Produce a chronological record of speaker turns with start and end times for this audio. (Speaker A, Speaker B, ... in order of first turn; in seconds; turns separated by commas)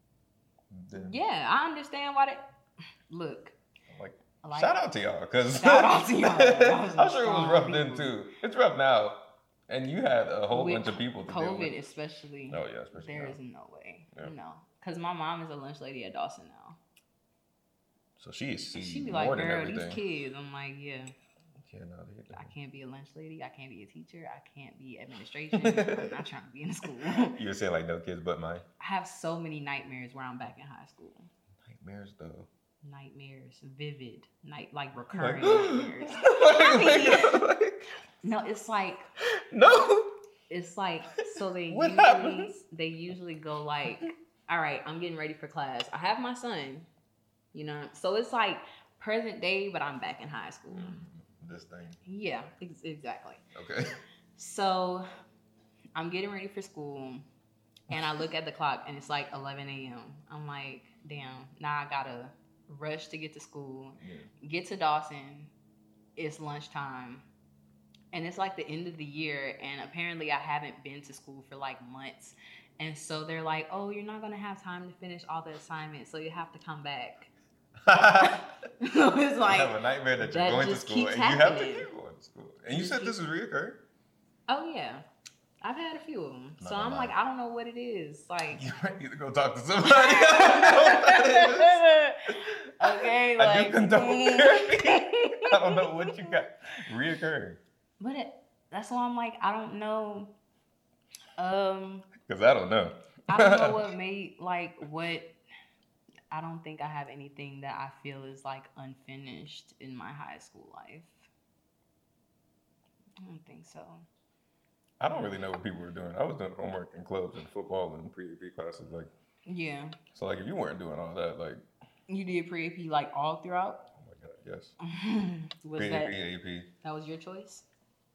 Speaker A: 0.7-1.2, Speaker B: 0.9-2.4, Speaker B: 3.1-3.6, Speaker A: 3.9-11.7, Speaker B: 4.4-4.8, Speaker B: 5.5-8.2, Speaker B: 10.5-16.8, Speaker A: 12.5-13.4, Speaker A: 18.2-20.0, Speaker B: 18.7-21.1, Speaker A: 21.6-22.5, Speaker B: 22.3-27.4, Speaker A: 25.5-26.1, Speaker A: 27.1-28.6, Speaker B: 28.8-31.3, Speaker A: 31.6-32.5, Speaker B: 32.8-37.4, Speaker A: 35.1-37.8, Speaker B: 38.2-39.1, Speaker A: 39.5-40.1, Speaker B: 40.5-46.9, Speaker A: 41.2-42.5, Speaker B: 47.5-51.0, Speaker A: 50.7-52.0, Speaker B: 52.0-53.4, Speaker A: 53.5-53.9, Speaker B: 54.4-55.0, Speaker B: 55.9-57.3, Speaker B: 57.9-65.5, Speaker A: 64.0-64.3, Speaker B: 66.2-67.2, Speaker B: 68.1-77.3, Speaker A: 77.8-78.5, Speaker B: 78.2-81.9, Speaker A: 79.5-83.8, Speaker B: 82.7-83.2, Speaker B: 84.5-85.0, Speaker B: 85.6-88.6, Speaker A: 86.6-87.1, Speaker A: 88.5-97.6, Speaker B: 89.8-96.3, Speaker B: 98.0-100.3, Speaker B: 101.4-102.1, Speaker A: 102.2-103.8, Speaker B: 103.3-105.3, Speaker B: 106.3-111.3, Speaker B: 113.2-114.0, Speaker A: 115.0-119.1, Speaker B: 119.5-120.0, Speaker A: 120.1-121.6, Speaker B: 122.1-123.8, Speaker A: 123.9-124.7, Speaker B: 124.8-126.2, Speaker A: 125.8-126.7, Speaker B: 126.8-127.7